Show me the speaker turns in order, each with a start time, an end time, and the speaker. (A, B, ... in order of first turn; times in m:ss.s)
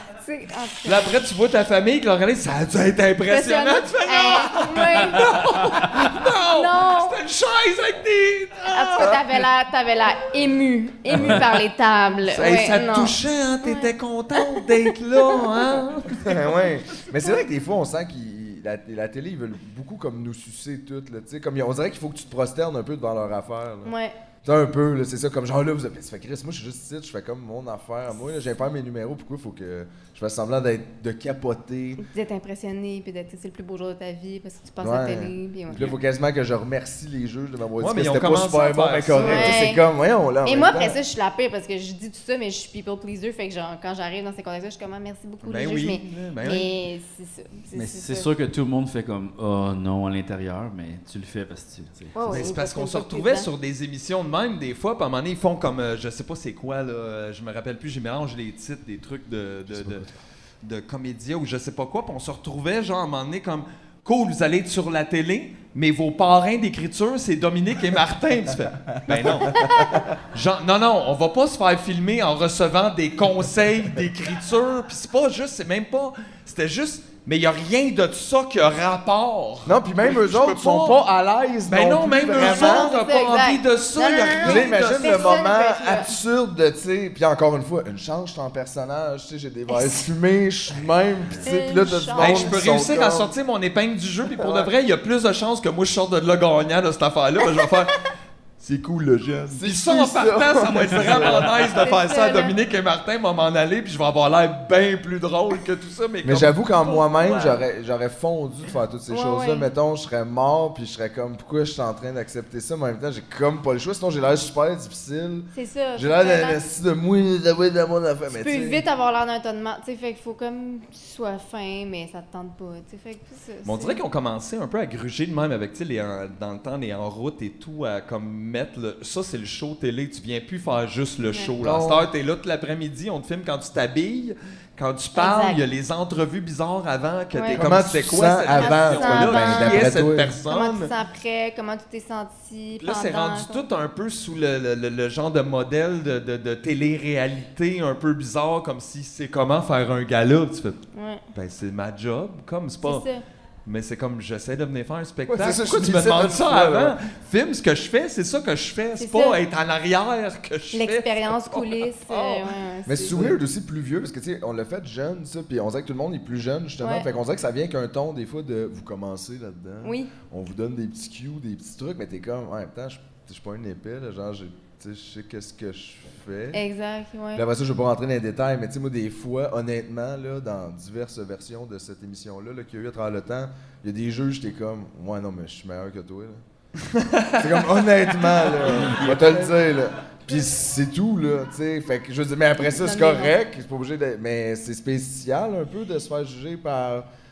0:00.2-0:01.1 A
0:00.9-0:09.4 B
0:03.3-0:05.6 A
0:06.5-0:07.2 A
0:08.7-0:14.7 A
0:11.2-0:11.4 B
0:12.3-0:16.4 B
0:16.2-0:23.9 C
0:23.8-0:24.1 A
0:24.4-0:32.0 C
0:32.0-0:36.0 A
0:34.8-0:41.0 C
0:37.8-0:39.6 B
0:39.2-0:39.8 A
0:40.4-0:48.3 A
0:45.4-0:46.7 B
0:47.7-0:52.3 D
0:52.1-0:53.5 A
0:52.3-1:00.0 B
1:00.6-1:21.0 B
1:09.1-1:10.1 C
1:09.5-1:09.9 A
1:19.6-1:23.0 C
1:21.7-1:25.4 B
1:22.3-1:26.1 A
1:24.4-1:33.3 C
1:29.7-1:30.0 A
1:31.4-1:32.6 A
1:32.2-1:38.0 B
1:34.3-1:34.7 C
1:38.6-1:47.6 B
1:38.6-1:41.8 C
1:41.8-1:42.6 A
1:46.2-1:58.8 C
1:49.1-1:49.7 A
1:55.5-1:56.6 A
1:58.3-2:04.0 A
2:03.6-2:20.9 B
2:11.3-2:11.5 A
2:11.6-2:12.1 C
2:15.2-2:15.6 A
2:17.3-2:17.6 A
2:17.5-2:20.4 C
2:18.5-2:19.9 A
2:20.5-2:23.6 A
2:22.8-2:30.8 B
2:31.0-2:31.2 A
2:31.4-2:33.0 B
2:32.8-2:33.2 A
2:33.6-2:42.5 B
2:35.3-2:37.0 C
2:39.0-2:39.4 A
2:40.7-2:43.4 A
2:42.9-2:56.6 C
2:46.8-2:47.1 A
2:49.8-2:50.1 A
2:56.5-2:57.4 A
2:57.4-3:06.4 C
3:06.9-3:07.6 B
3:07.4-3:17.1 C
3:08.2-3:08.7 B
3:08.8-3:09.5 D
3:12.6-3:13.3 A